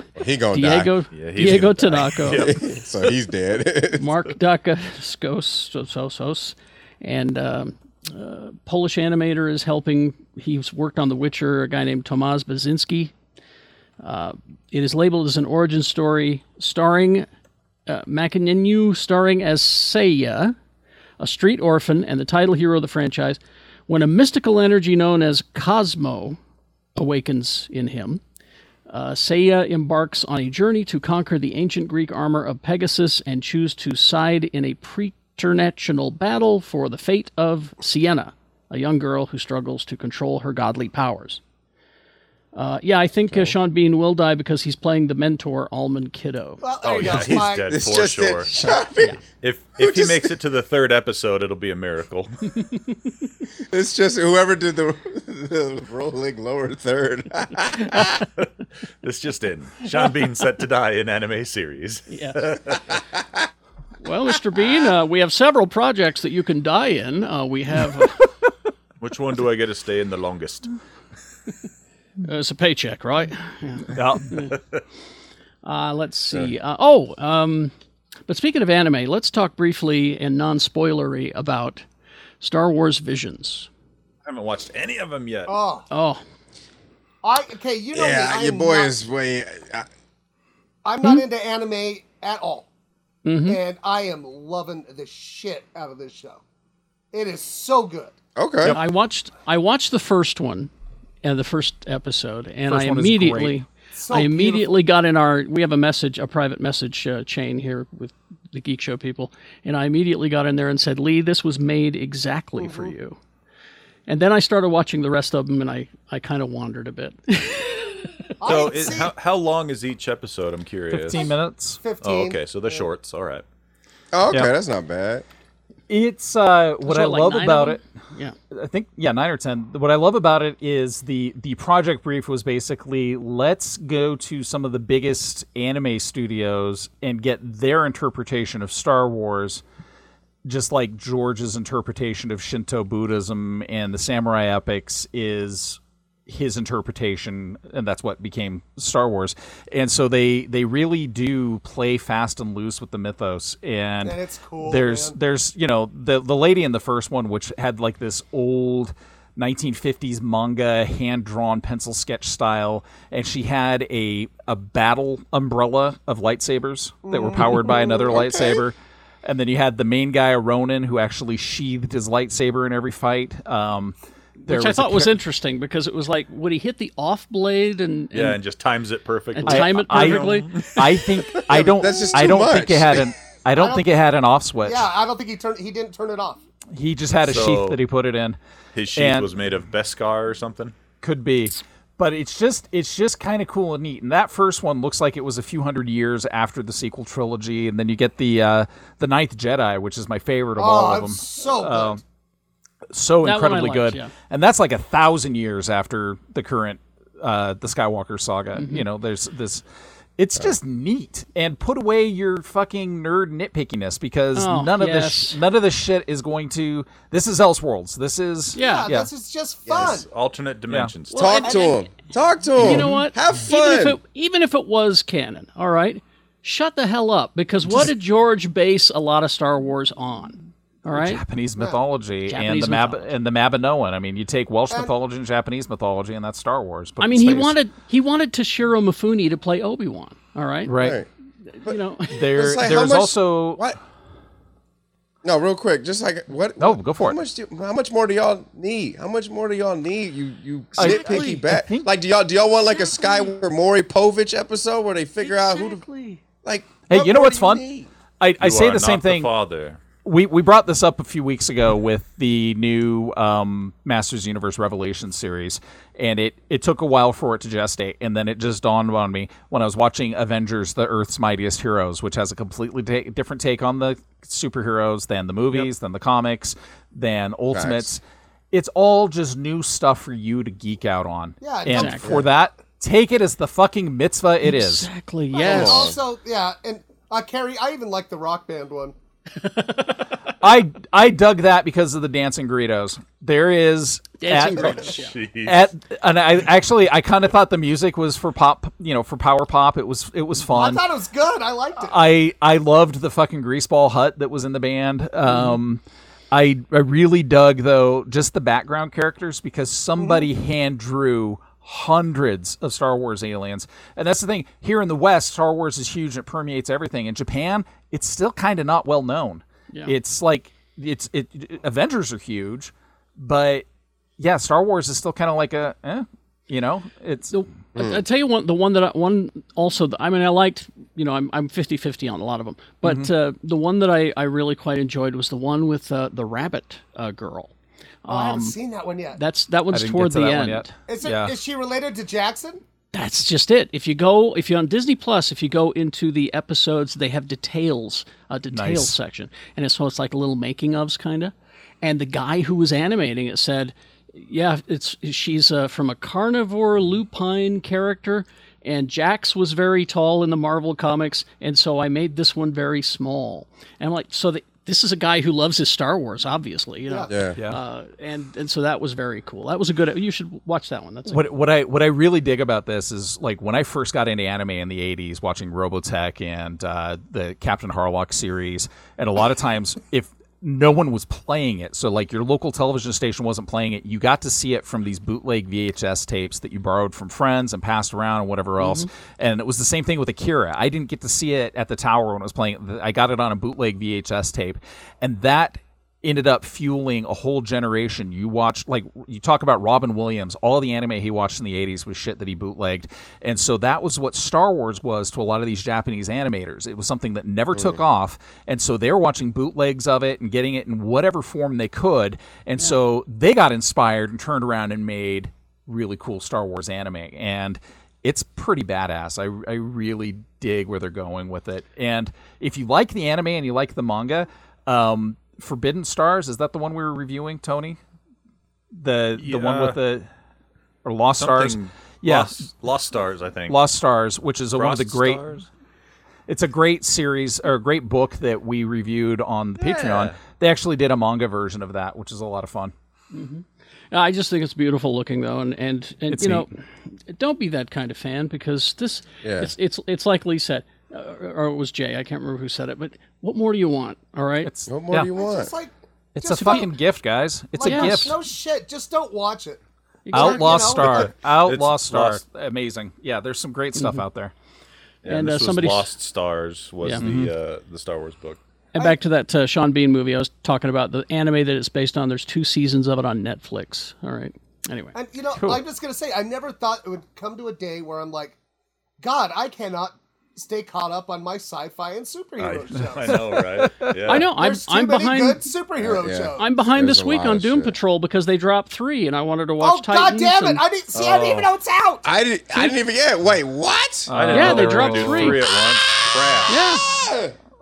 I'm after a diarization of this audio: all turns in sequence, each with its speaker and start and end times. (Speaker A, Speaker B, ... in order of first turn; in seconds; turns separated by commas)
Speaker A: 0.2-0.9, Speaker B: 0.5-2.5, Speaker C: 1.1-2.6, Speaker A: 2.2-4.2, Speaker B: 4.0-13.1, Speaker B: 14.0-17.3, Speaker B: 17.9-20.6, Speaker B: 21.2-26.4, Speaker B: 27.0-28.2, Speaker B: 28.9-41.4, Speaker B: 42.5-46.6, Speaker A: 43.3-43.5, Speaker D: 46.6-47.9, Speaker C: 46.8-48.5, Speaker A: 47.4-49.2, Speaker B: 48.5-49.2, Speaker C: 49.4-52.5, Speaker A: 49.8-50.3, Speaker A: 53.7-58.2, Speaker C: 59.0-62.9, Speaker B: 62.1-62.7, Speaker B: 64.0-68.3, Speaker C: 69.0-70.7, Speaker B: 72.2-74.5, Speaker E: 73.9-74.4, Speaker B: 75.6-77.7, Speaker B: 78.3-81.8, Speaker B: 82.4-83.7, Speaker C: 84.2-85.5, Speaker D: 85.5-85.9, Speaker B: 85.9-86.2, Speaker D: 87.2-89.0, Speaker A: 87.9-89.9, Speaker D: 90.8-92.7, Speaker B: 93.2-93.6, Speaker D: 93.5-96.4, Speaker D: 97.1-98.2, Speaker A: 98.4-98.8, Speaker B: 98.7-100.7, Speaker B: 101.2-113.2, Speaker E: 102.7-103.6, Speaker D: 104.0-104.7, Speaker D: 112.6-112.9, Speaker B: 114.1-118.3, Speaker D: 118.4-119.2, Speaker C: 118.4-121.3, Speaker E: 120.9-121.8, Speaker D: 121.1-122.9, Speaker C: 122.0-123.4, Speaker A: 124.1-125.2, Speaker E: 125.9-127.8, Speaker B: 126.8-128.3, Speaker E: 128.5-139.6, Speaker E: 140.4-175.2, Speaker D: 154.0-155.2, Speaker D: 167.1-168.2, Speaker A: 167.3-168.6, Speaker B: 174.5-178.4, Speaker C: 178.1-180.8, Speaker B: 179.3-180.6, Speaker E: 179.4-184.9, Speaker A: 181.4-183.1, Speaker D: 183.6-183.8, Speaker D: 184.6-186.4, Speaker E: 186.7-188.4, Speaker C: 187.2-187.8, Speaker C: 188.7-190.7, Speaker E: 188.9-189.3, Speaker E: 191.0-202.0, Speaker D: 200.6-202.0, Speaker E: 202.9-209.6, Speaker B: 203.2-204.1, Speaker B: 208.6-208.8, Speaker E: 210.2-219.1, Speaker B: 214.3-215.4, Speaker B: 218.6-218.9, Speaker D: 218.6-220.1, Speaker A: 219.7-220.0, Speaker C: 219.8-221.4, Speaker A: 221.1-224.0, Speaker B: 221.2-221.7, Speaker D: 221.3-221.8, Speaker B: 222.6-231.2, Speaker E: 222.6-222.9, Speaker E: 230.9-237.6, Speaker B: 232.3-233.1, Speaker B: 237.0-240.7, Speaker E: 240.7-241.0, Speaker A: 240.8-241.1, Speaker B: 241.5-242.2, Speaker E: 242.1-243.6, Speaker A: 242.3-243.8, Speaker A: 245.2-255.8, Speaker E: 246.6-247.2, Speaker E: 250.8-251.9, Speaker B: 250.8-251.4, Speaker D: 255.2-256.2, Speaker A: 256.4-257.9, Speaker E: 256.9-257.6, Speaker E: 258.2-259.3, Speaker C: 258.4-259.8, Speaker E: 260.0-278.0, Speaker A: 277.5-277.9, Speaker E: 278.5-284.9, Speaker D: 281.4-282.3, Speaker B: 281.7-282.1, Speaker B: 284.4-285.9, Speaker D: 285.3-288.9, Speaker A: 285.4-286.0, Speaker B: 289.4-289.9, Speaker E: 290.4-300.9, Speaker B: 294.2-295.2, Speaker C: 294.9-295.6, Speaker D: 300.5-302.0, Speaker E: 301.8-323.6, Speaker B: 305.3-305.6, Speaker D: 310.0-310.3, Speaker E: 324.2-327.4, Speaker B: 327.3-337.5, Speaker A: 327.8-328.0, Speaker E: 332.8-333.1, Speaker B: 338.0-338.6, Speaker D: 338.1-339.2, Speaker B: 339.1-340.7, Speaker E: 339.7-341.4, Speaker D: 340.9-342.6, Speaker B: 342.9-371.3, Speaker E: 348.5-348.9, Speaker D: 366.9-367.2, Speaker A: 367.1-367.4, Speaker E: 371.1-427.8, Speaker B: 388.6-388.9, Speaker A: 407.5-407.8, Speaker E: 428.8-430.1, Speaker C: 429.2-429.8, Speaker E: 430.9-432.5, Speaker C: 431.2-433.6, Speaker E: 433.5-435.3, Speaker C: 434.6-435.4, Speaker E: 436.3-442.7, Speaker C: 439.6-440.2, Speaker B: 443.1-454.5, Speaker E: 446.1-446.5, Speaker A: 449.2-449.5, Speaker E: 454.4-455.1, Speaker A: 454.7-455.5, Speaker D: 455.1-456.8, Speaker E: 456.2-458.2, Speaker D: 457.6-461.1, Speaker B: 457.6-458.1, Speaker B: 460.1-460.6, Speaker E: 460.1-464.3, Speaker C: 460.7-462.2, Speaker B: 463.8-464.0, Speaker C: 465.0-468.4, Speaker B: 465.1-465.9, Speaker E: 467.0-467.3, Speaker B: 468.7-474.9, Speaker D: 474.9-478.4, Speaker E: 475.4-475.6, Speaker D: 479.0-483.4, Speaker C: 482.4-484.3, Speaker E: 483.1-484.2, Speaker B: 484.1-485.5, Speaker D: 484.3-486.5, Speaker A: 485.8-487.8, Speaker B: 486.4-490.6, Speaker D: 489.6-492.1, Speaker C: 490.9-491.5, Speaker A: 492.1-494.1, Speaker E: 494.1-495.4, Speaker C: 494.1-496.6, Speaker B: 494.2-495.4, Speaker B: 496.5-496.9, Speaker A: 496.9-497.3